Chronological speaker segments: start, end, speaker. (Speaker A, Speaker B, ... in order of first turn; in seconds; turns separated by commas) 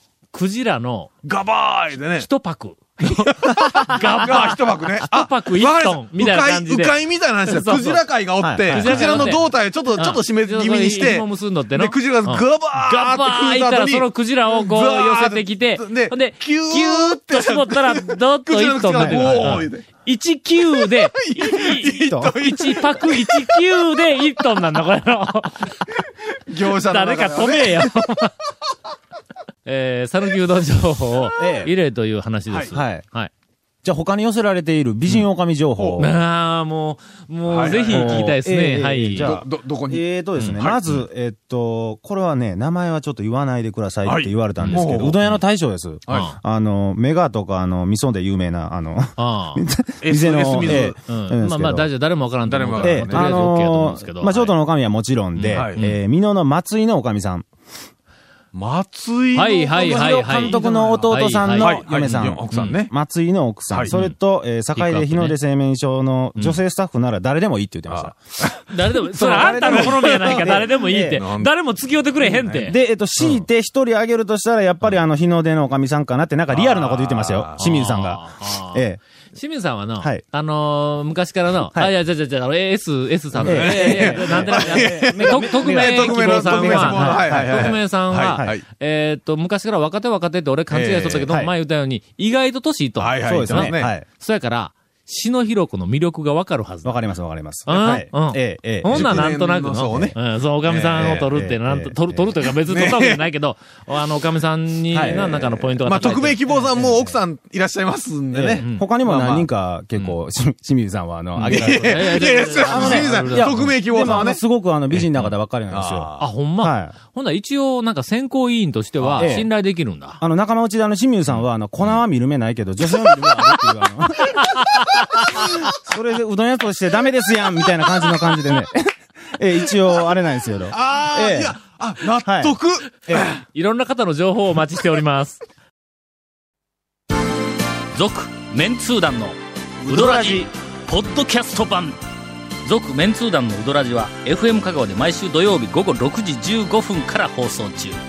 Speaker A: 0.3-1.1, Speaker B: 1.2-2.3, Speaker A: 2.2-8.1, Speaker B: 3.0-19.9, Speaker C: 8.4-9.3, Speaker A: 8.7-25.8, Speaker C: 19.0-19.6, Speaker B: 20.8-23.6, Speaker B: 25.9-28.0, Speaker A: 26.8-28.4, Speaker A: 29.6-33.3, Speaker C: 31.4-31.7, Speaker C: 32.7-33.0, Speaker C: 33.8-36.2, Speaker B: 35.8-36.1, Speaker A: 36.0-39.4, Speaker B: 37.5-38.3, Speaker C: 37.9-51.9, Speaker B: 39.2-40.8, Speaker A: 40.4-41.0, Speaker B: 44.0-45.2, Speaker A: 44.6-45.4, Speaker B: 46.1-46.3, Speaker A: 46.1-46.4, Speaker A: 49.2-49.6, Speaker B: 50.0-51.0, Speaker A: 50.6-54.5, Speaker B: 52.5-53.5, Speaker C: 52.8-57.5, Speaker A: 55.4-56.0, Speaker B: 55.5-55.8, Speaker B: 58.5-61.0, Speaker A: 59.3-61.8, Speaker C: 59.8-68.2, Speaker B: 61.6-62.9, Speaker A: 63.9-65.4, Speaker B: 67.9-71.5, Speaker A: 68.7-73.4, Speaker C: 69.1-71.2, Speaker C: 72.3-79.0, Speaker B: 76.5-77.7, Speaker A: 77.0-97.0, Speaker B: 83.3-88.6, Speaker C: 83.4-88.6, Speaker B: 90.7-91.3, Speaker B: 93.0-93.9, Speaker C: 93.2-94.0, Speaker C: 96.8-99.3, Speaker A: 97.7-106.6, Speaker B: 98.9-101.3, Speaker C: 99.9-100.2, Speaker C: 101.0-102.4, Speaker B: 102.7-103.2, Speaker C: 104.9-105.5, Speaker B: 105.4-110.2, Speaker C: 106.7-107.2, Speaker C: 108.3-117.0, Speaker A: 108.6-108.9, Speaker A: 111.4-113.8, Speaker B: 111.5-116.3, Speaker A: 116.2-120.2, Speaker B: 119.0-119.5, Speaker C: 119.2-131.6, Speaker A: 124.7-125.5, Speaker B: 130.7-133.4, Speaker C: 132.2-133.3, Speaker A: 133.2-135.4, Speaker D: 138.0-139.3, Speaker A: 138.1-139.3, Speaker D: 139.9-141.9, Speaker A: 139.9-140.4, Speaker A: 141.0-141.8, Speaker D: 142.7-147.9, Speaker A: 142.7-143.5, Speaker A: 144.8-145.8, Speaker A: 146.3-147.9